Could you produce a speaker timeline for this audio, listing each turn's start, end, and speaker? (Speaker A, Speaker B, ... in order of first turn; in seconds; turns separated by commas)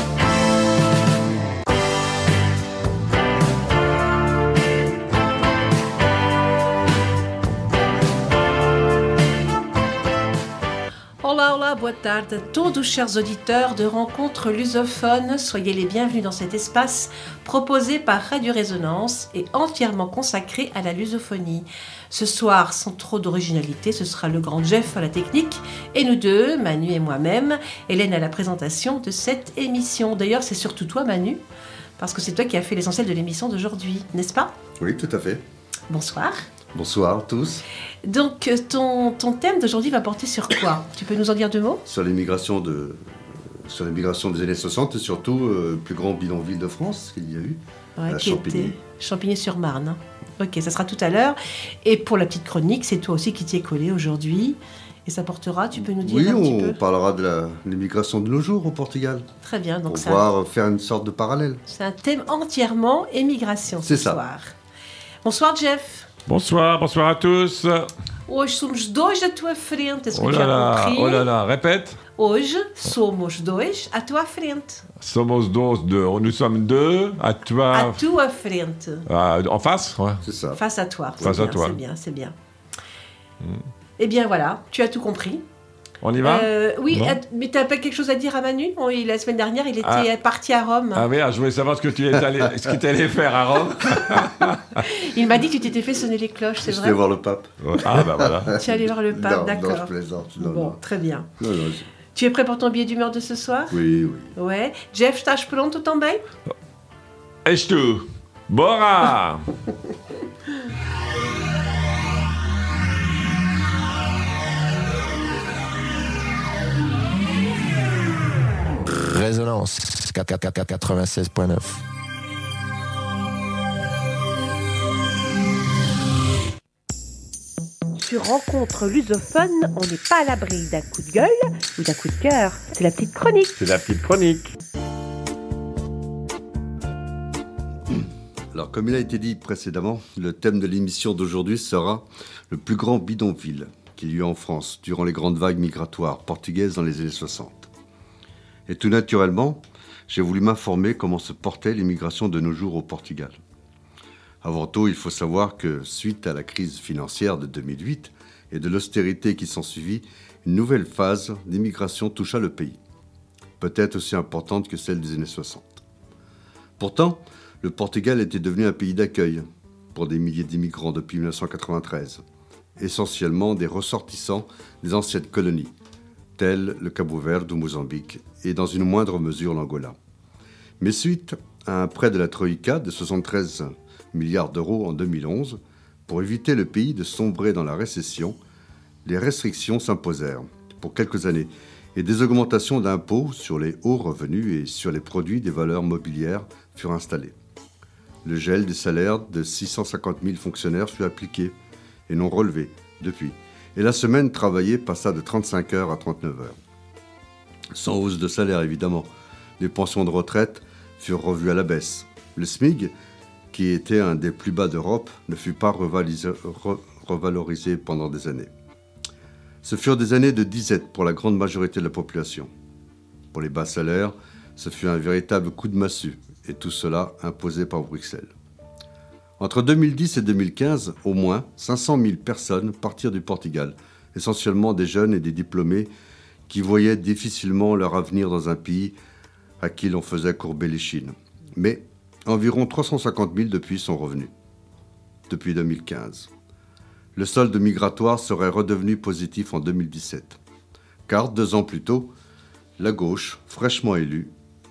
Speaker A: 11.2-31.4, Speaker A: 32.0-34.5, Speaker B: 34.8-35.4, Speaker A: 35.9-36.4, Speaker B: 36.7-37.6, Speaker A: 38.0-41.8, Speaker B: 41.9-48.8, Speaker A: 48.0-56.8, Speaker B: 55.9-59.3, Speaker A: 59.4-60.3, Speaker B: 59.9-61.6, Speaker A: 61.7-64.5, Speaker B: 63.8-64.2, Speaker A: 65.2-66.1, Speaker C: 66.3-67.9, Speaker A: 68.3-71.3, Speaker C: 70.1-72.0, Speaker A: 72.2-74.8, Speaker C: 75.0-78.0, Speaker A: 77.7-79.0, Speaker C: 79.1-80.2, Speaker B: 80.2-80.6, Speaker A: 80.5-82.3, Speaker C: 81.2-81.8, Speaker A: 84.0-85.4, Speaker C: 86.0-87.2, Speaker A: 86.2-91.0, Speaker C: 89.8-90.1, Speaker C: 90.9-94.8, Speaker A: 94.8-97.0, Speaker B: 96.6-100.8, Speaker C: 97.6-98.5, Speaker A: 98.5-101.3, Speaker B: 101.4-101.9, Speaker A: 102.1-103.8, Speaker B: 103.7-104.3, Speaker A: 104.3-106.2, Speaker C: 107.5-109.4, Speaker D: 118.8-121.8, Speaker A: 128.0-133.6, Speaker C: 133.6-134.5, Speaker B: 138.5-147.7, Speaker B: 148.7-153.4, Speaker B: 154.4-162.8, Speaker B: 163.6-165.8, Speaker B: 166.8-172.2, Speaker B: 172.8-175.7, Speaker B: 176.4-180.0, Speaker B: 180.8-188.4, Speaker B: 189.1-197.4, Speaker B: 198.2-201.6, Speaker B: 202.1-206.6, Speaker B: 207.7-209.1, Speaker B: 209.6-212.9, Speaker B: 213.5-218.5, Speaker B: 219.6-222.5, Speaker B: 223.3-228.3, Speaker B: 229.4-235.9, Speaker B: 236.5-239.0, Speaker B: 239.6-244.3, Speaker B: 245.3-246.3, Speaker B: 247.2-250.4, Speaker B: 251.1-252.1, Speaker B: 252.8-254.3